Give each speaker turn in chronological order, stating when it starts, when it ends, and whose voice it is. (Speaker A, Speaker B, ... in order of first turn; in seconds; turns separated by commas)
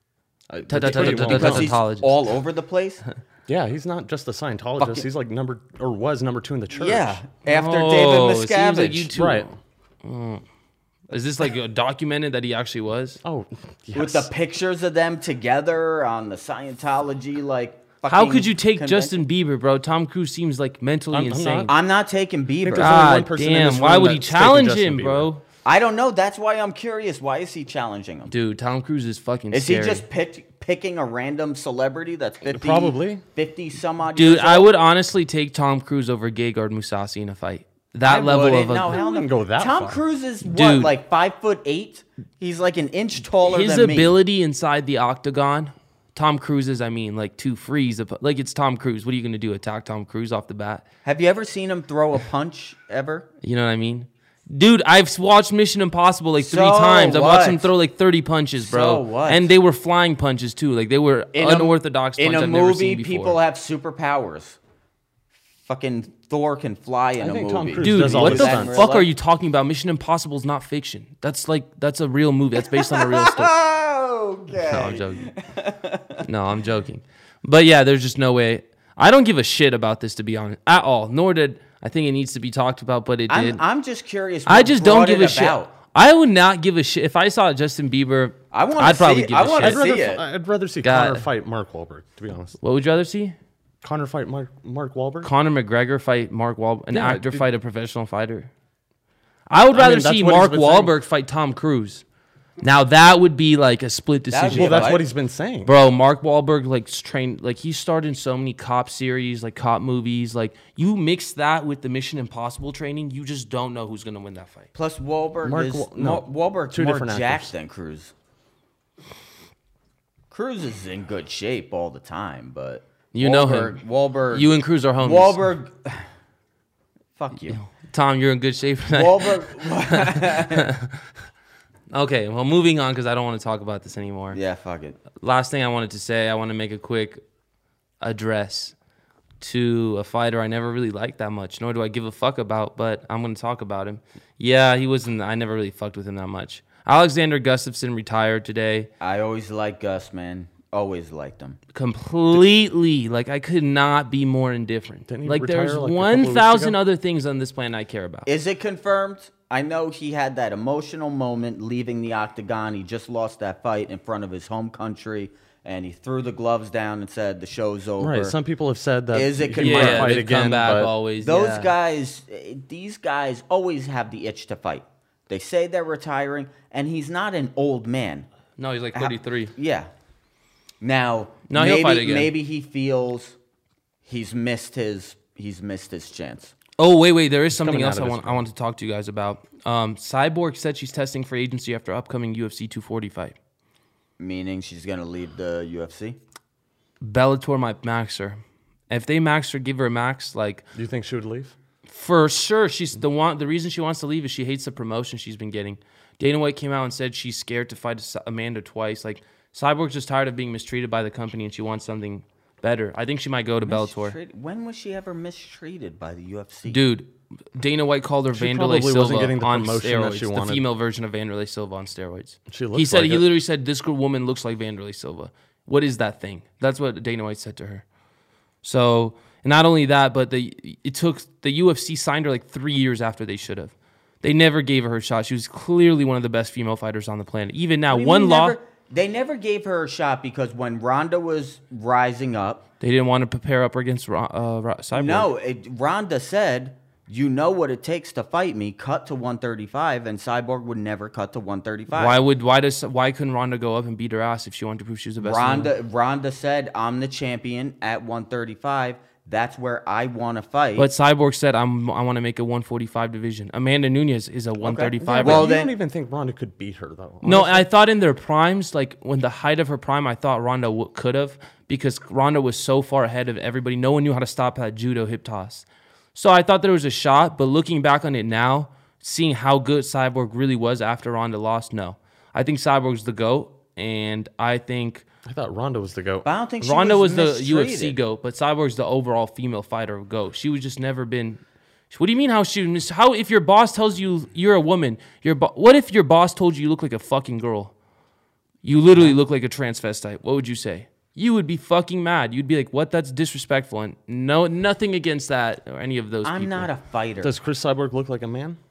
Speaker A: 0.5-1.7, Speaker B: 0.7-2.2, Speaker C: 0.8-3.0, Speaker A: 3.5-7.2, Speaker C: 4.8-5.0, Speaker C: 6.7-9.1, Speaker B: 7.5-10.4, Speaker A: 9.1-9.5, Speaker B: 11.1-13.2, Speaker A: 13.2-14.3, Speaker C: 13.9-19.1, Speaker B: 18.1-21.7, Speaker A: 21.1-21.7, Speaker C: 21.7-23.0, Speaker A: 22.6-25.3, Speaker B: 22.8-25.4, Speaker C: 25.6-28.3, Speaker B: 28.3-30.0, Speaker C: 29.5-34.7, Speaker A: 32.5-33.2, Speaker B: 34.1-39.0, Speaker C: 38.0-44.1, Speaker A: 38.9-40.0, Speaker B: 40.4-40.9, Speaker B: 43.4-50.8, Speaker C: 51.0-53.3, Speaker B: 53.4-63.4, Speaker C: 56.4-57.7, Speaker C: 58.6-59.5, Speaker C: 61.3-64.6, Speaker C: 65.6-69.1, Speaker A: 67.2-68.9, Speaker B: 67.8-73.5, Speaker C: 72.6-76.2, Speaker B: 74.7-75.3, Speaker B: 76.2-83.6, Speaker C: 83.3-85.7, Speaker B: 84.5-89.8, Speaker C: 88.5-90.2, Speaker A: 89.6-92.6, Speaker B: 90.8-91.2, Speaker B: 92.6-93.3, Speaker A: 93.8-95.3, Speaker B: 95.2-98.5, Speaker A: 96.9-97.4, Speaker B: 99.5-102.0, Speaker A: 99.7-100.9, Speaker B: 102.6-105.0, Speaker C: 104.3-105.0, Speaker A: 104.5-105.7, Speaker B: 105.6-114.7, Speaker C: 114.7-118.1, Speaker A: 115.4-117.5, Speaker C: 120.3-126.1, Speaker B: 123.1-123.8, Speaker B: 124.3-125.4, Speaker C: 127.2-127.6, Speaker B: 127.5-131.1, Speaker C: 128.9-130.7, Speaker B: 131.9-134.4, Speaker C: 134.3-135.0, Speaker B: 135.1-137.2, Speaker B: 138.0-138.7, Speaker B: 139.4-148.9, Speaker C: 149.0-151.6, Speaker B: 151.7-158.3, Speaker A: 155.1-156.8, Speaker C: 158.2-168.3, Speaker A: 168.0-170.9, Speaker C: 169.1-170.3, Speaker B: 169.6-171.7, Speaker C: 171.2-178.3, Speaker B: 178.6-179.5, Speaker C: 178.9-179.9, Speaker C: 180.8-183.3, Speaker B: 181.5-182.3, Speaker C: 184.1-186.6, Speaker B: 186.8-193.3, Speaker A: 187.5-188.4, Speaker C: 194.2-196.2, Speaker B: 197.0-200.7, Speaker A: 200.7-201.5, Speaker B: 201.8-214.2, Speaker C: 213.6-216.8, Speaker B: 216.7-227.8, Speaker A: 218.3-220.6, Speaker A: 222.5-223.2, Speaker B: 228.6-238.6, Speaker C: 237.9-242.6, Speaker B: 242.8-245.3, Speaker C: 244.9-252.2, Speaker B: 251.9-255.7, Speaker C: 255.2-260.9, Speaker B: 260.8-265.5, Speaker C: 264.6-265.7, Speaker A: 264.8-267.7, Speaker B: 267.2-285.0, Speaker A: 285.2-286.2, Speaker C: 286.2-288.0, Speaker B: 286.6-297.7, Speaker B: 298.6-306.7, Speaker C: 306.2-307.3, Speaker A: 307.2-308.6